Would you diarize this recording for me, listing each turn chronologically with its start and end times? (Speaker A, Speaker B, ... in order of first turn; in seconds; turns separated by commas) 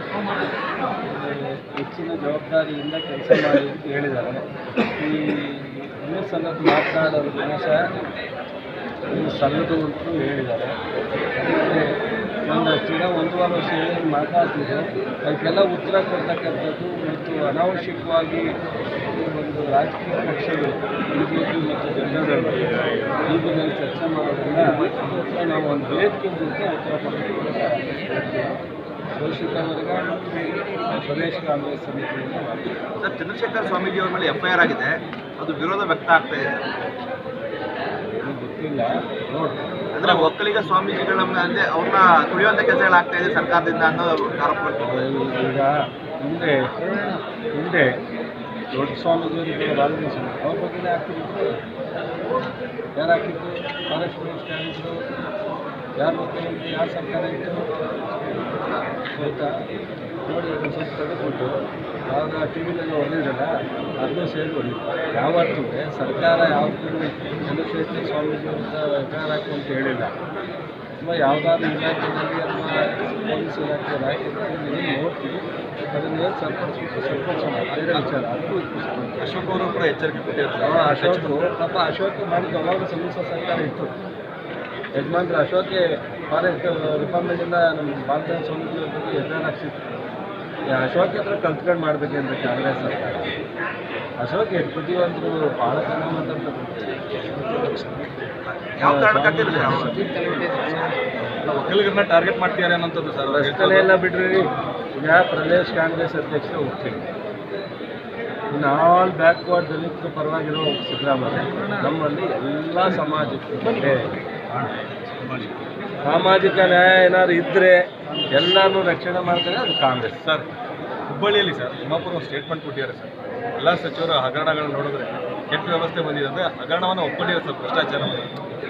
Speaker A: 1.0-4.4, Speaker A: 5.0-7.8, Speaker A: 9.1-10.8, Speaker A: 11.4-11.8, Speaker A: 12.5-18.4, Speaker A: 19.1-22.7, Speaker A: 23.3-28.6, Speaker A: 29.2-32.8, Speaker B: 33.0-36.4, Speaker A: 38.1-40.3, Speaker B: 39.9-44.9, Speaker A: 44.8-46.6, Speaker A: 47.6-47.9, Speaker A: 48.7-51.5, Speaker A: 53.0-55.0, Speaker A: 56.0-57.6, Speaker A: 59.1-59.5, Speaker A: 60.2-61.5, Speaker A: 62.1-63.5, Speaker A: 64.0-70.1, Speaker A: 71.0-79.3, Speaker B: 77.7-78.0, Speaker C: 79.2-81.4, Speaker A: 80.6-83.9, Speaker A: 85.0-89.8, Speaker A: 90.7-93.3, Speaker A: 94.2-98.1, Speaker B: 98.5-100.9, Speaker A: 98.8-101.3, Speaker C: 101.4-103.9, Speaker A: 103.3-104.4, Speaker A: 105.0-107.1, Speaker A: 108.5-114.1, Speaker C: 114.5-115.6, Speaker A: 116.1-117.8, Speaker A: 118.3-120.2, Speaker C: 120.2-120.5, Speaker C: 121.1-128.3